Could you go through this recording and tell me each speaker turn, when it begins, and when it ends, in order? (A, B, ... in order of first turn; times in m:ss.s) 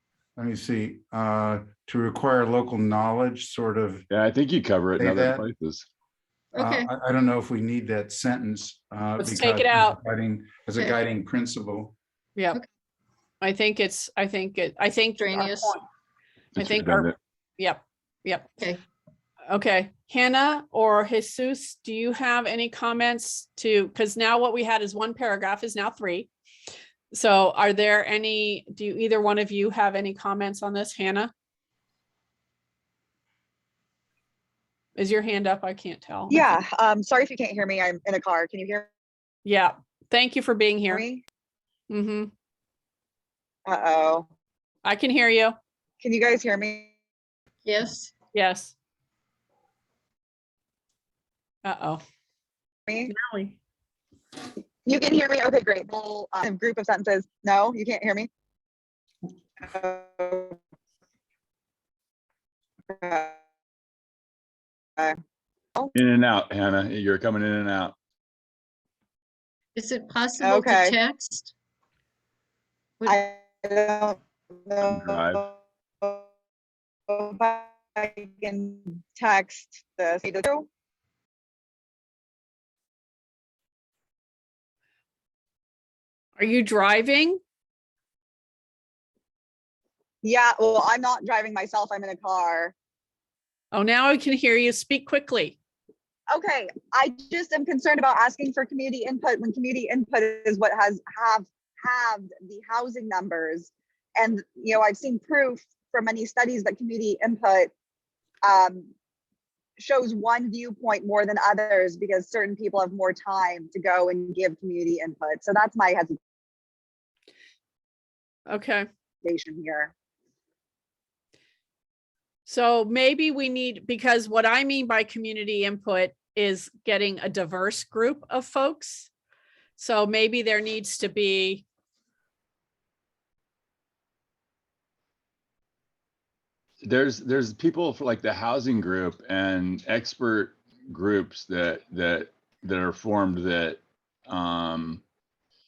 0:00.4-0:04.0 A
0:04.1-0:05.9 B
0:05.0-0:05.5 A
0:06.5-0:06.9 C
0:06.6-0:12.0 A
0:09.2-0:10.0 D
0:13.4-0:15.8 D
0:15.2-0:15.8 C
0:16.6-0:17.2 B
0:16.6-0:18.5 D
0:19.5-0:26.3 D
0:27.1-0:31.3 D
0:35.0-0:36.4 D
0:36.3-0:38.9 E
0:39.4-0:41.0 D
0:40.9-0:41.2 E
0:41.9-0:42.3 D
0:43.6-0:44.3 E
0:44.8-0:45.6 D
0:46.0-0:46.9 E
0:47.6-0:48.1 C
0:48.3-0:48.7 D
0:51.6-0:52.0 D
0:52.9-0:53.1 E
0:53.1-0:53.6 D
0:54.8-0:58.3 E
0:59.6-1:00.6 E
1:02.9-1:03.4 E
1:05.9-1:08.0 B
1:09.7-1:11.5 C
1:10.4-1:11.0 E
1:13.0-1:16.2 E
1:14.8-1:15.4 B
1:17.1-1:20.7 E
1:26.4-1:27.4 D
1:30.2-1:32.7 E
1:33.7-1:35.6 D
1:36.3-1:47.7 E
1:48.4-1:48.9 E
1:49.8-1:56.2 E
1:58.5-1:58.9 D
1:59.2-1:59.9 E
2:02.4-2:09.1 D
2:09.8-2:11.6 D
2:16.8-2:25.0 B